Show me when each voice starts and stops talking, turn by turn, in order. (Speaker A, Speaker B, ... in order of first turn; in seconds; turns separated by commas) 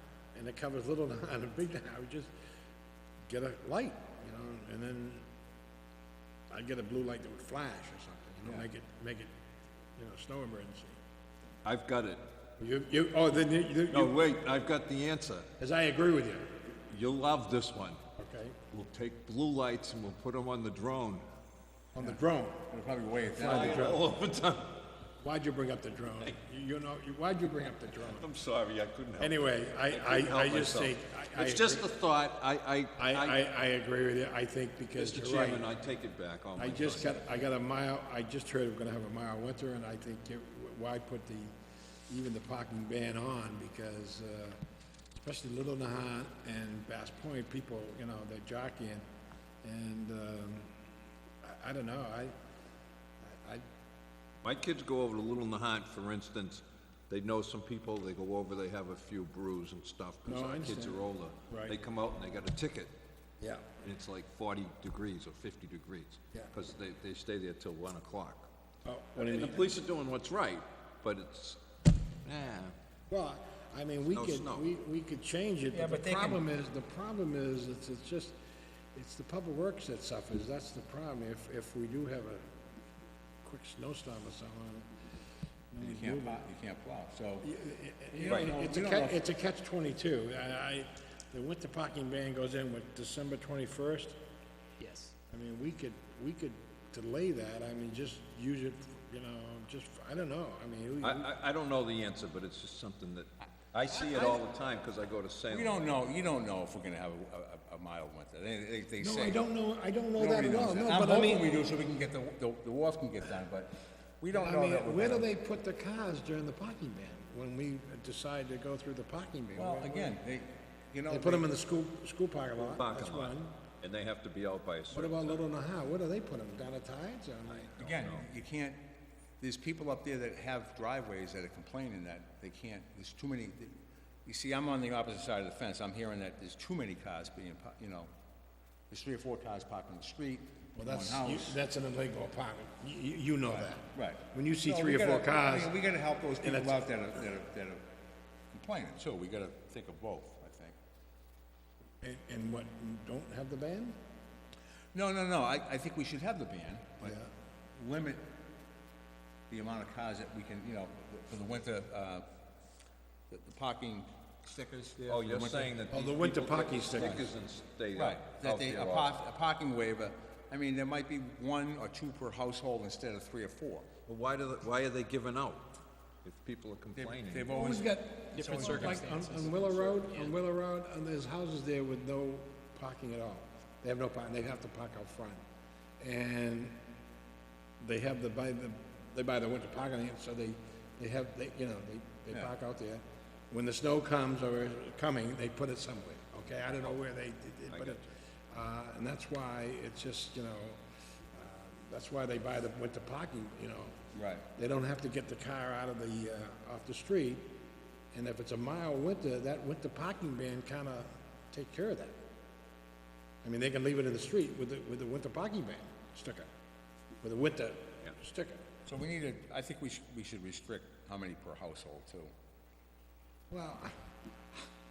Speaker A: 0.3-2.3, Speaker A: 3.3-5.3, Speaker A: 6.5-9.3, Speaker A: 10.0-11.0, Speaker B: 11.6-12.2, Speaker A: 12.6-14.2, Speaker B: 13.9-15.5, Speaker A: 15.6-16.5, Speaker B: 16.9-18.0, Speaker A: 18.1-18.6, Speaker B: 18.7-21.2, Speaker A: 21.9-22.6, Speaker C: 22.7-24.0, Speaker A: 23.4-24.0, Speaker B: 23.4-24.8, Speaker A: 25.2-28.3, Speaker B: 28.1-33.4, Speaker A: 29.2-31.9, Speaker A: 33.0-35.6, Speaker B: 34.9-37.2, Speaker A: 36.6-41.5, Speaker A: 42.1-44.6, Speaker A: 45.2-49.0, Speaker A: 49.6-50.7, Speaker A: 51.4-52.4, Speaker A: 53.2-53.6, Speaker B: 54.4-62.9, Speaker A: 60.2-61.8, Speaker A: 63.4-63.6, Speaker B: 63.8-68.5, Speaker A: 68.8-69.8, Speaker B: 69.2-71.6, Speaker B: 72.2-72.7, Speaker A: 73.1-78.3, Speaker B: 74.1-74.7, Speaker C: 75.7-76.4, Speaker A: 78.9-82.5, Speaker A: 83.4-84.9, Speaker A: 85.7-86.4, Speaker C: 85.8-87.5, Speaker A: 87.4-94.2, Speaker C: 88.1-89.2, Speaker B: 88.3-88.5, Speaker D: 94.8-95.1, Speaker A: 95.3-101.3, Speaker B: 101.0-105.8, Speaker C: 104.0-104.4, Speaker C: 105.5-109.4, Speaker A: 109.0-111.5, Speaker C: 110.2-115.2, Speaker A: 114.3-120.2, Speaker C: 119.5-121.5, Speaker A: 121.1-123.5, Speaker B: 122.6-125.4, Speaker A: 124.9-127.7, Speaker B: 127.5-128.3, Speaker C: 127.8-128.8, Speaker C: 129.4-138.1, Speaker C: 138.9-141.6, Speaker A: 140.8-145.8, Speaker C: 143.5-147.8, Speaker A: 146.4-146.8, Speaker C: 148.5-150.7, Speaker A: 152.0-154.0, Speaker C: 154.9-157.2, Speaker A: 157.0-157.3, Speaker C: 157.8-158.2, Speaker C: 159.5-162.2, Speaker C: 163.3-165.7, Speaker B: 165.0-169.1, Speaker A: 165.9-167.3, Speaker C: 167.9-173.9, Speaker B: 174.1-175.7, Speaker B: 176.2-177.5, Speaker C: 176.9-179.1, Speaker A: 177.5-185.4, Speaker D: 178.3-180.3, Speaker A: 186.0-186.8, Speaker A: 187.8-204.0, Speaker B: 197.7-198.1, Speaker C: 204.1-204.4, Speaker A: 204.5-207.5, Speaker A: 208.1-212.2, Speaker A: 213.4-216.5, Speaker A: 217.2-218.6, Speaker C: 218.8-222.3, Speaker A: 223.5-223.9